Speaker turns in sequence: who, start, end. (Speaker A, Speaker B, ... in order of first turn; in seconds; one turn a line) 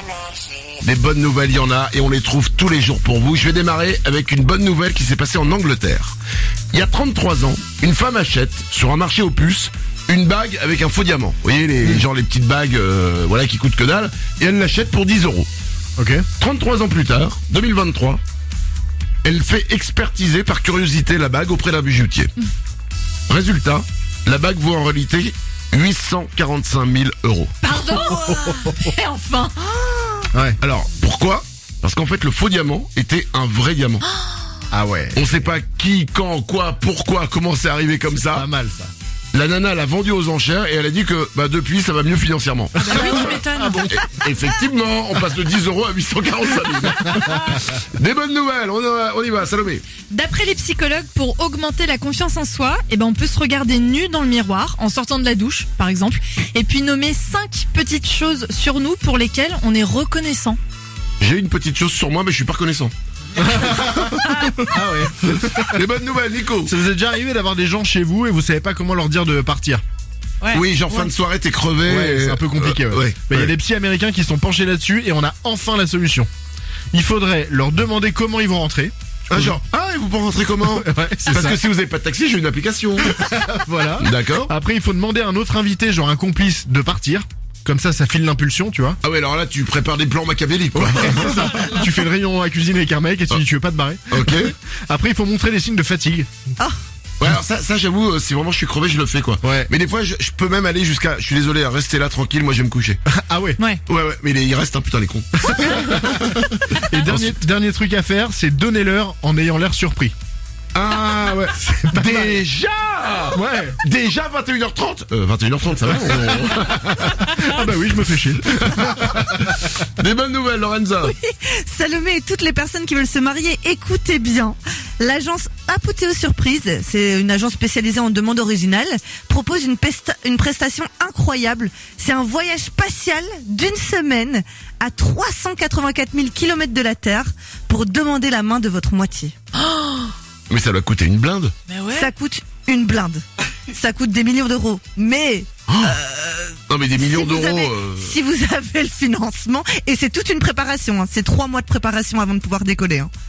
Speaker A: 0.8-6.2
Speaker A: 6.7-15.5
Speaker B: 16.0-16.3
Speaker A: 16.4-18.2
Speaker A: 19.2-22.3
Speaker A: 23.3-27.5
Speaker C: 27.6-30.3
Speaker B: 30.3-30.6
Speaker A: 30.6-34.0
Speaker B: 34.7-35.3
Speaker A: 35.1-38.5
Speaker B: 38.3-38.9
Speaker A: 39.3-49.8
Speaker C: 42.8-43.9
Speaker B: 42.8-44.0
Speaker C: 50.1-60.6
Speaker A: 61.2-62.9
Speaker B: 63.4-65.8
Speaker A: 63.4-64.6
Speaker C: 64.3-64.7
Speaker A: 65.2-66.7
Speaker B: 66.6-69.8
Speaker C: 70.4-71.1
Speaker A: 70.5-73.5
Speaker B: 71.9-76.3
Speaker B: 76.9-79.6
Speaker A: 79.3-83.2
Speaker B: 80.7-81.6
Speaker B: 83.0-89.0
Speaker A: 84.0-84.5
Speaker A: 89.0-91.9
Speaker B: 90.8-96.3
Speaker A: 94.1-94.5
Speaker A: 97.2-103.0
Speaker B: 99.4-99.7
Speaker B: 103.1-103.6
Speaker A: 103.9-107.4
Speaker B: 105.6-110.2
Speaker A: 110.7-117.5
Speaker B: 111.9-112.3
Speaker B: 113.3-113.8
Speaker B: 117.0-119.2
Speaker A: 118.5-121.1
Speaker D: 121.0-139.3
Speaker C: 139.7-140.1
Speaker A: 140.5-141.5
Speaker C: 141.7-142.1
Speaker D: 141.9-153.1
Speaker A: 145.7-146.0
Speaker A: 146.7-148.1